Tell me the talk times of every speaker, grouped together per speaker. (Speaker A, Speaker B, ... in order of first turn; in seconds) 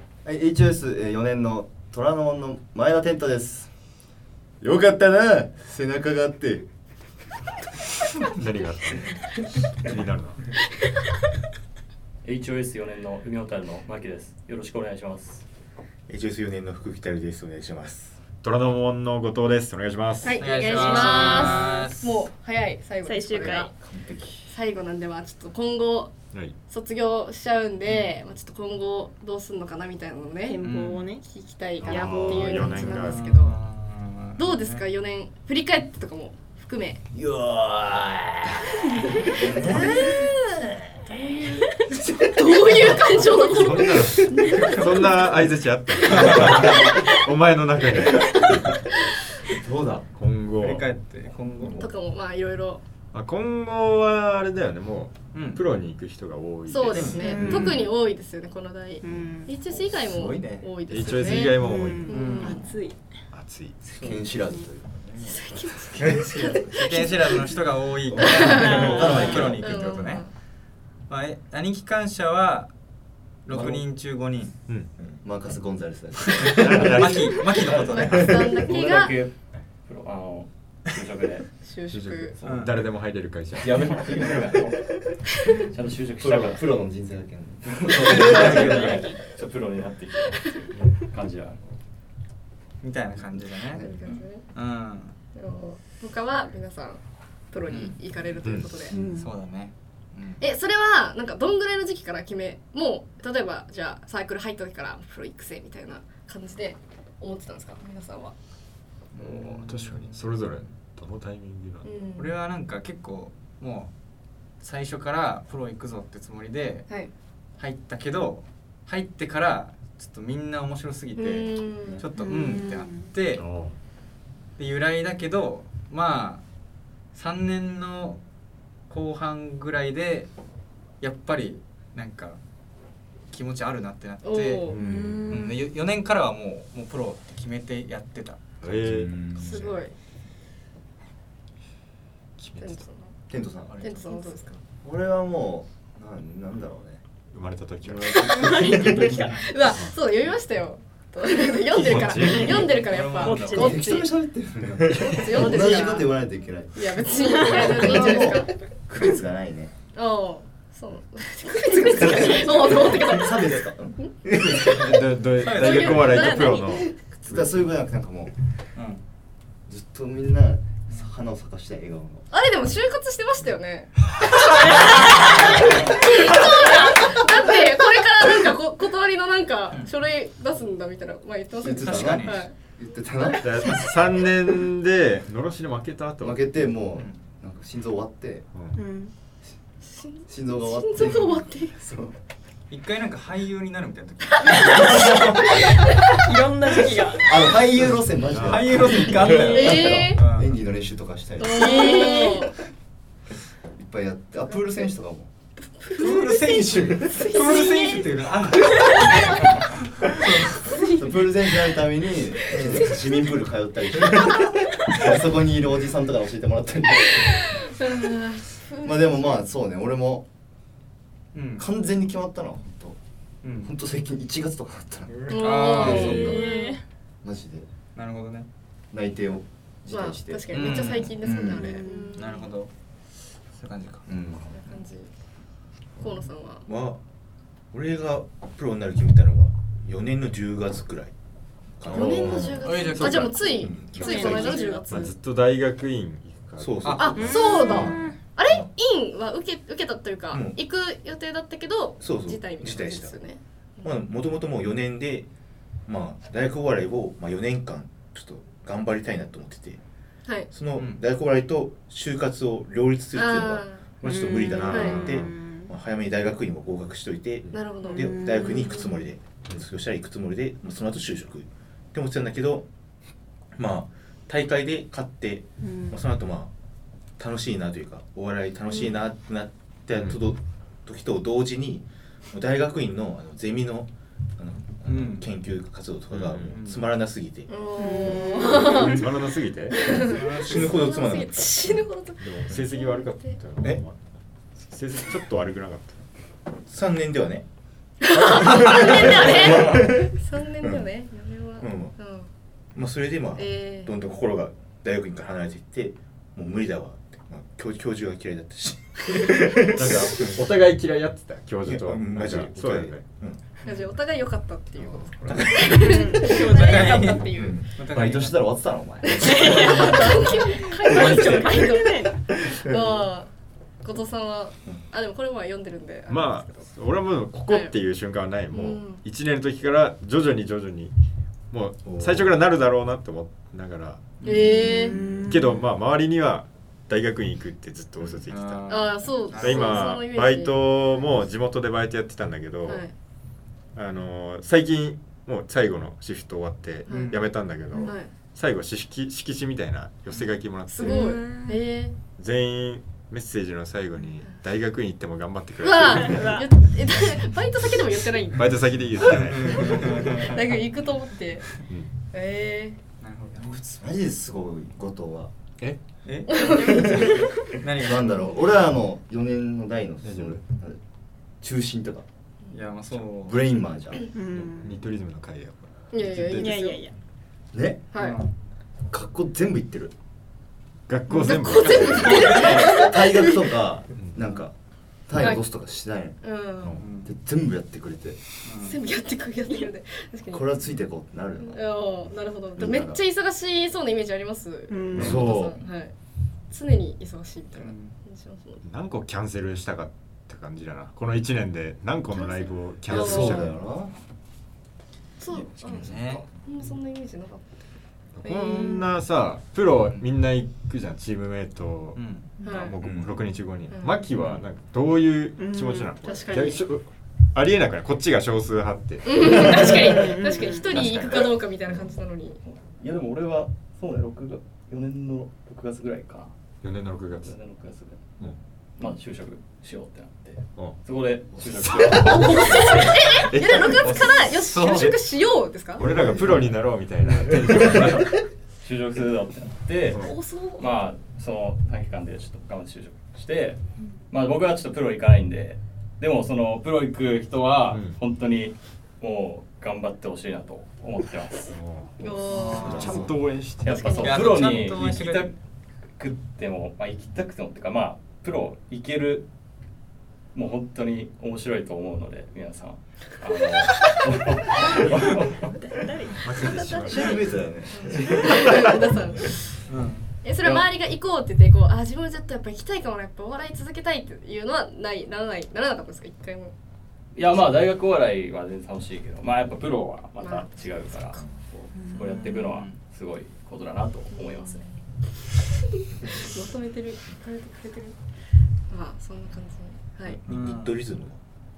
Speaker A: 0.2-3.7, 4.6-6.7, 23.5-24.5, 37.2-37.7, 39.3-40.3, 49.5-50.1, 51.6-51.9, 59.7-60.7, 63.9-65.4, 68.1-69.9, 75.2-77.3, 78.1-78.5, 84.0-84.7, 86.2-88.9, 134.8-135.2, 138.7-139.8, 143.3-143.8, 144.8-147.0, 147.8-149.3, 153.4-159.7, 162.1-164.9, 167.0-168.3, 169.7-172.2, 181.6-183.8, 186.2-188.4, 190.3-192.1, 197.1-202.3, 203.8-205.3, 210.8-217.4, 218.7-220.2, 221.6-223.0, 223.6-226.5, 227.2-227.7, 228.9-231.8, 234.1-234.5, 241.9-242.7, 317.9-320.1, 363.8-365.3, 367.8-370.8, 371.4-372.1, 373.1-374.1, 377.5-377.9, 378.9-379.9, 382.2-384.5, 385.1-386.2, 387.0-388.2, 390.3-391.8, 392.6-393.0, 394.9-395.5, 402.9-403.9, 452.6-453.2, 466.6-468.7
Speaker B: 8.3-10.5, 18.4-20.4, 31.8-33.3, 43.4-48.6, 50.1-50.9, 53.1-57.6, 60.9-62.4, 63.3-64.1, 74.7-74.9, 76.7-76.9, 81.9-83.8, 98.4-98.8, 109.2-111.9, 123.3-123.8, 134.7-135.1, 138.6-139.2, 142.4-142.8, 147.3-148.4, 151.9-152.4, 164.8-167.5, 183.4-186.4, 188.5-188.8, 198.3-198.8, 242.1-242.6, 244.9-247.0, 264.6-265.1, 267.4-267.7, 279.9-280.2, 286.1-286.6, 288.6-290.0, 292.2-294.0, 294.6-296.0, 309.7-313.1, 326.1-330.9, 331.5-338.7, 339.3-342.9, 343.7-351.1, 352.2-356.4, 358.4-360.0, 370.0-370.4, 374.5-376.4, 380.9-382.3, 394.9-395.5, 398.6-403.5, 408.2-419.9, 420.7-421.3, 426.6-427.3, 433.3-434.0, 434.6-435.0, 435.7-438.2, 447.7-448.0, 451.5-454.1, 466.2-467.1
Speaker C: 12.2-15.4, 76.6-81.5, 82.3-82.7, 83.5-86.6, 88.0-91.6, 152.2-153.5, 422.4-426.3, 427.2-428.0, 428.8-433.0, 437.5-440.0, 440.6-451.5, 453.6-455.3, 456.0-459.2, 460.3-465.5, 477.1-481.2, 481.8-484.6
Speaker D: 16.1-18.2, 73.5-73.8, 75.0-75.2, 236.7-237.0, 237.7-241.1, 241.8-242.5, 243.0-244.7, 246.6-248.7, 250.3-250.6, 252.0-253.2, 253.8-255.3, 255.8-259.8, 260.5-272.7, 273.5-276.5, 277.2-287.5, 289.9-291.7, 296.6-297.4, 298.3-300.9, 301.6-301.9, 302.7-310.4, 311.6-313.4, 314.8-317.7, 331.8-332.3, 412.8-413.1, 490.2-491.2
Speaker E: 20.2-23.7, 24.5-26.1, 26.7-30.6, 31.2-33.6, 34.4-37.0, 42.2-45.3, 46.1-47.1, 51.8-52.8, 56.7-62.8, 65.3-67.4, 68.2-70.3, 77.9-79.2, 81.6-82.4, 93.8-94.4, 95.3-99.0, 100.4-108.3, 111.8-112.3, 121.1-122.0, 134.2-134.8, 139.4-139.9, 142.6-143.1, 143.8-144.6, 148.2-154.1, 155.0-156.2, 156.7-158.5, 159.9-163.7, 165.4-166.9, 172.3-182.5, 189.8-191.8, 194.4-196.1, 199.4-200.2, 201.4-202.5, 205.6-208.1, 208.7-209.3, 210.7-211.2, 212.5-213.0, 217.5-218.9, 225.3-226.8, 229.9-232.3, 234.5-235.1, 236.0-236.7, 241.9-245.1, 246.9-253.9, 260.2-260.5, 263.1-263.9, 264.6-265.1, 267.5-268.8, 287.5-289.1, 289.7-293.4, 298.0-302.3, 303.4-303.9, 313.6-317.6, 319.0-323.3, 323.8-326.7, 327.5-327.7, 328.5-329.0, 334.2-335.0, 338.7-340.8, 342.6-342.9, 346.9-347.2, 347.7-348.1, 350.7-351.9, 355.6-358.5, 359.4-361.5, 362.1-362.8, 375.9-376.8, 377.9-378.2, 381.1-383.0, 385.2-385.4, 386.2-386.8, 388.6-390.4, 391.4-395.9, 396.5-398.6, 402.1-403.4, 405.2-407.6, 408.2-408.8, 412.4-412.8, 413.7-414.0, 416.1-416.6, 419.0-422.4, 431.9-435.9, 439.9-440.7, 452.0-453.2, 453.7-454.2, 467.7-469.5, 470.2-476.5, 480.2-481.2, 484.1-484.8, 486.0-488.0, 488.7-490.2
Speaker F: 20.4-22.3, 30.6-31.0, 33.0-34.8, 37.5-38.0, 50.6-51.8, 55.3-55.7, 56.9-57.9, 62.1-62.5, 63.8-64.3, 66.7-70.2, 71.1-72.7, 73.4-74.5, 76.5-78.5, 82.4-82.8, 88.0-89.0, 92.8-93.8, 94.5-95.1, 97.7-98.0, 99.1-100.4, 109.1-110.1, 112.1-113.9, 114.6-117.0, 117.6-123.4, 124.6-126.4, 127.1-128.2, 128.9-130.3, 131.0-132.4, 133.3-134.7, 135.3-138.6, 143.7-144.4, 152.9-153.3, 165.4-166.2, 168.8-169.0, 181.8-182.4, 192.7-195.4, 198.4-200.5, 205.9-209.2, 210.2-210.6, 221.3-221.7, 223.4-223.7, 225.3-226.2, 227.9-228.5, 230.5-231.1, 232.1-232.7, 233.5-234.1, 242.6-243.6, 246.9-247.2, 260.7-261.0, 284.9-285.3, 286.4-286.9, 290.1-290.6, 313.6-313.9, 316.3-318.4, 334.2-335.6, 338.3-339.8, 346.9-347.3, 359.2-360.5, 363.0-363.8, 366.0-368.4, 372.5-373.4, 378.0-378.3, 381.7-382.7, 386.8-387.1, 388.4-388.8, 397.5-397.9, 405.7-406.3, 409.8-410.1, 411.9-412.4, 414.1-414.4, 433.7-435.0, 452.3-452.9, 454.0-455.3, 469.7-470.1, 482.5-482.8, 490.3-490.8
Speaker G: 23.0-23.7, 30.4-31.3, 31.8-32.5, 57.2-57.5, 59.0-59.5, 61.7-63.0, 64.4-64.7, 98.9-99.3, 122.2-123.2, 134.8-135.7, 148.4-149.1, 152.3-153.9, 166.1-166.7, 188.7-189.1, 194.5-197.7, 199.4-199.7, 201.7-202.4, 225.7-226.8, 231.4-232.5, 244.1-244.9, 247.1-248.2, 264.0-265.7, 267.8-268.8, 275.6-276.0, 287.8-288.9, 315.8-316.8, 319.2-322.1, 334.8-335.3, 350.8-351.6, 356.1-356.4, 374.1-374.7, 376.3-376.9, 394.7-395.2, 408.5-408.9, 415.4-416.6, 419.9-420.9, 465.6-467.2, 481.7-482.5